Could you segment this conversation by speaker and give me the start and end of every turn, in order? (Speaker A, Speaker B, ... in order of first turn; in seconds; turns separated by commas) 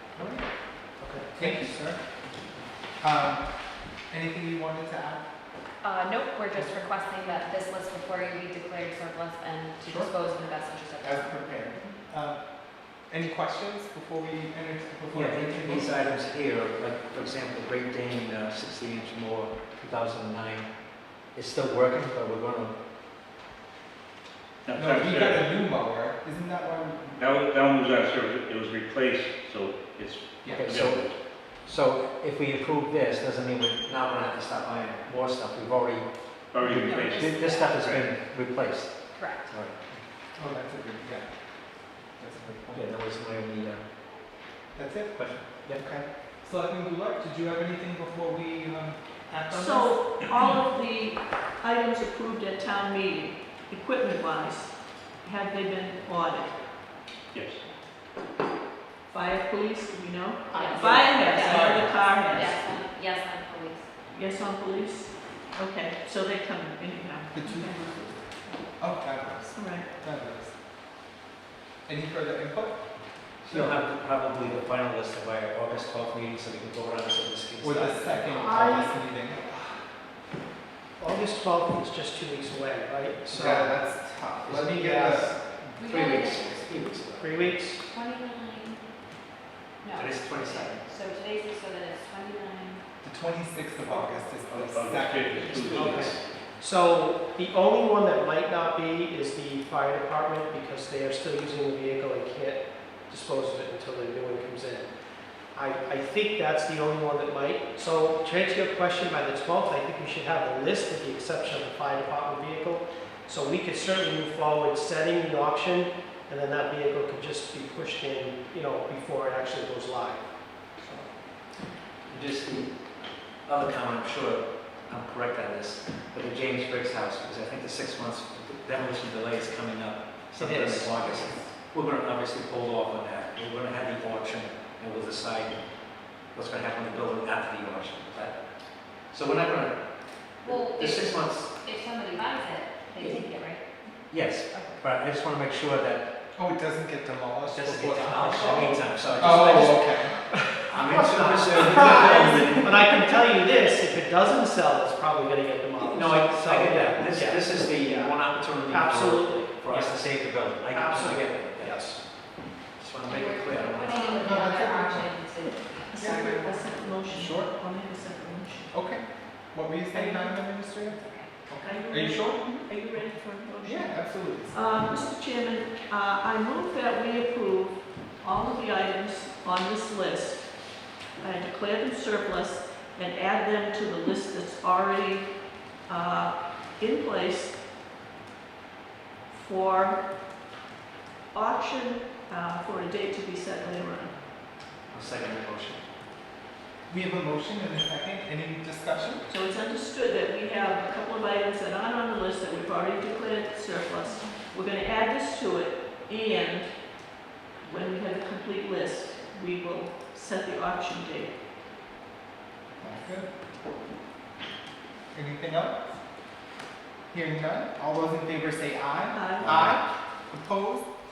Speaker A: 0.1-0.5, Speaker B: 1.0-1.6, Speaker A: 1.4-2.0, Speaker A: 3.0-5.2, Speaker C: 5.8-11.3, Speaker A: 9.8-10.1, Speaker A: 11.0-16.0, Speaker D: 15.1-22.7, Speaker E: 24.6-25.5, Speaker A: 24.7-27.3, Speaker E: 27.2-31.1, Speaker A: 30.4-30.7, Speaker D: 30.5-40.0, Speaker E: 36.5-38.2, Speaker C: 36.6-37.7, Speaker C: 39.1-39.5, Speaker A: 40.4-42.9, Speaker D: 42.7-44.4, Speaker A: 44.7-50.0, Speaker D: 45.1-45.9, Speaker F: 49.5-56.5, Speaker E: 57.3-57.6, Speaker F: 59.1-62.6, Speaker C: 60.5-63.9, Speaker A: 60.6-61.9, Speaker F: 64.1-68.8, Speaker A: 67.3-68.1, Speaker A: 68.8-70.6, Speaker F: 69.5-69.9, Speaker A: 71.8-73.8, Speaker D: 73.4-78.7, Speaker A: 77.6-79.8, Speaker B: 78.4-79.0, Speaker B: 81.0-83.8, Speaker D: 83.2-83.6, Speaker A: 83.3-85.5, Speaker B: 84.5-85.4, Speaker D: 85.7-87.6, Speaker C: 85.8-86.8, Speaker B: 87.2-87.8, Speaker C: 87.8-88.9, Speaker C: 89.8-92.8, Speaker D: 89.9-90.9, Speaker A: 93.0-96.1, Speaker E: 94.5-96.2, Speaker B: 95.6-104.9, Speaker B: 105.5-121.1, Speaker D: 122.1-141.5, Speaker B: 130.4-130.9, Speaker C: 140.4-143.8, Speaker D: 144.1-146.1, Speaker C: 144.5-144.8, Speaker A: 146.3-150.3, Speaker D: 147.5-153.0, Speaker B: 150.5-162.0, Speaker A: 151.5-152.6, Speaker D: 155.8-164.3, Speaker C: 163.1-166.5, Speaker A: 164.2-165.3, Speaker F: 165.9-168.7, Speaker A: 166.0-167.5, Speaker A: 168.7-172.6, Speaker F: 169.9-170.3, Speaker C: 170.9-171.3, Speaker F: 171.6-187.6, Speaker A: 173.6-174.6, Speaker F: 189.3-190.0, Speaker F: 191.3-194.2, Speaker D: 194.9-195.9, Speaker A: 196.9-199.2, Speaker F: 199.3-211.3, Speaker A: 212.8-213.3, Speaker A: 215.1-216.0, Speaker A: 217.1-220.9, Speaker F: 219.1-219.8